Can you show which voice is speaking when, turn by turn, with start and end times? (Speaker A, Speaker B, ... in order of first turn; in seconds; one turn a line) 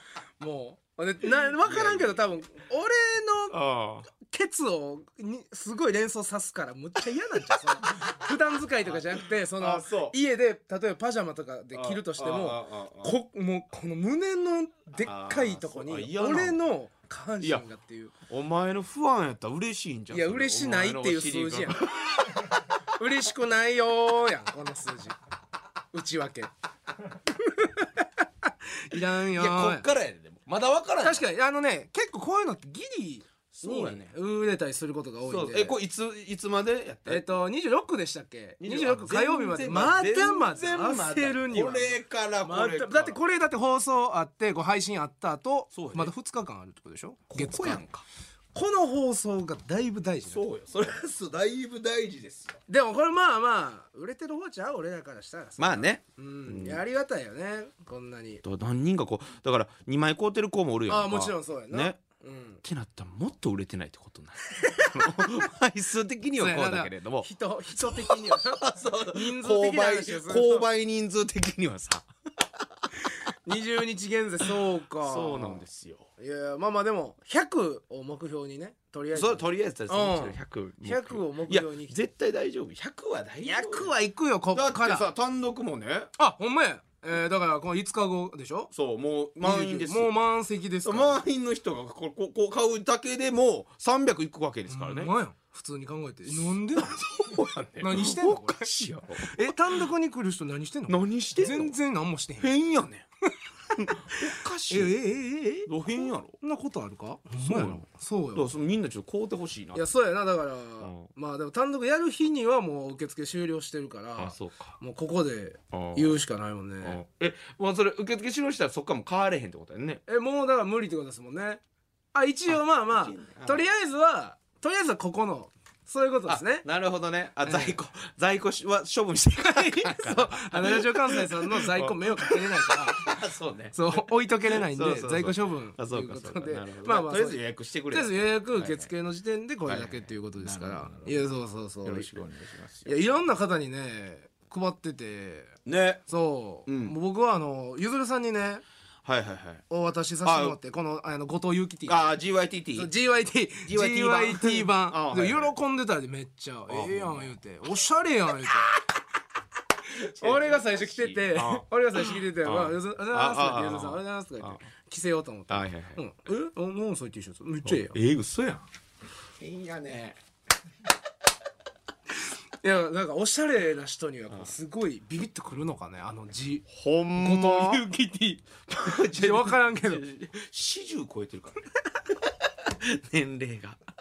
Speaker A: 0.4-3.6
Speaker B: 1.6-2.2
Speaker B: 3.5-4.1
Speaker A: 4.1-18.1
Speaker B: 8.8-10.2
Speaker B: 11.7-13.1
Speaker B: 15.0-16.6
Speaker B: 18.3-22.1
Speaker A: 20.1-22.0
Speaker A: 23.0-25.2
Speaker A: 25.9-26.5
Speaker A: 27.4-29.9
Speaker B: 29.3-31.2
Speaker A: 31.0-35.7
Speaker B: 33.5-34.1
Speaker B: 35.3-37.2
Speaker A: 37.1-47.8
Speaker B: 38.6-43.2
Speaker B: 45.7-46.1
Speaker B: 47.3-48.0
Speaker A: 48.5-50.4
Speaker B: 50.3-52.6
Speaker A: 52.7-58.4
Speaker B: 55.6-56.8
Speaker B: 58.4-62.0
Speaker A: 60.9-62.6
Speaker B: 62.6-72.0
Speaker A: 64.6-64.9
Speaker A: 66.4-70.7
Speaker A: 73.4-75.6
Speaker B: 75.0-76.0
Speaker A: 76.2-81.9
Speaker B: 79.1-83.9
Speaker A: 83.4-85.1
Speaker B: 84.5-86.1
Speaker A: 86.2-88.7
Speaker B: 88.7-90.1
Speaker A: 89.4-91.2
Speaker B: 90.8-95.1
Speaker A: 94.7-97.0
Speaker B: 96.3-99.8
Speaker A: 97.8-98.7
Speaker A: 99.2-102.5
Speaker B: 100.9-101.7
Speaker B: 102.4-103.0
Speaker B: 103.8-105.0
Speaker A: 104.1-108.4
Speaker B: 105.7-106.4
Speaker B: 107.4-107.8
Speaker B: 108.3-109.8
Speaker A: 109.7-117.0
Speaker B: 110.8-111.1
Speaker B: 114.2-114.8
Speaker B: 115.7-116.1
Speaker B: 116.8-120.0
Speaker A: 120.1-121.6
Speaker A: 122.1-126.7
Speaker B: 122.5-123.6
Speaker B: 126.3-138.9
Speaker A: 127.4-127.8
Speaker A: 129.4-133.2
Speaker A: 133.7-137.4
Speaker A: 137.9-142.1
Speaker B: 139.7-141.2
Speaker B: 141.8-143.0
Speaker A: 142.8-145.5
Speaker B: 145.7-146.0
Speaker A: 146.1-148.6
Speaker B: 146.7-146.9
Speaker B: 149.0-149.6
Speaker A: 149.7-152.1
Speaker B: 150.2-150.6
Speaker B: 151.9-152.9
Speaker A: 152.7-158.8
Speaker B: 153.7-155.5
Speaker B: 156.7-157.3
Speaker A: 159.9-168.0
Speaker B: 160.2-164.6
Speaker B: 165.5-166.0
Speaker B: 167.6-168.6
Speaker B: 169.4-170.2
Speaker A: 172.6-176.7
Speaker B: 176.7-177.8
Speaker A: 177.2-180.0
Speaker B: 178.7-181.7
Speaker B: 182.7-183.8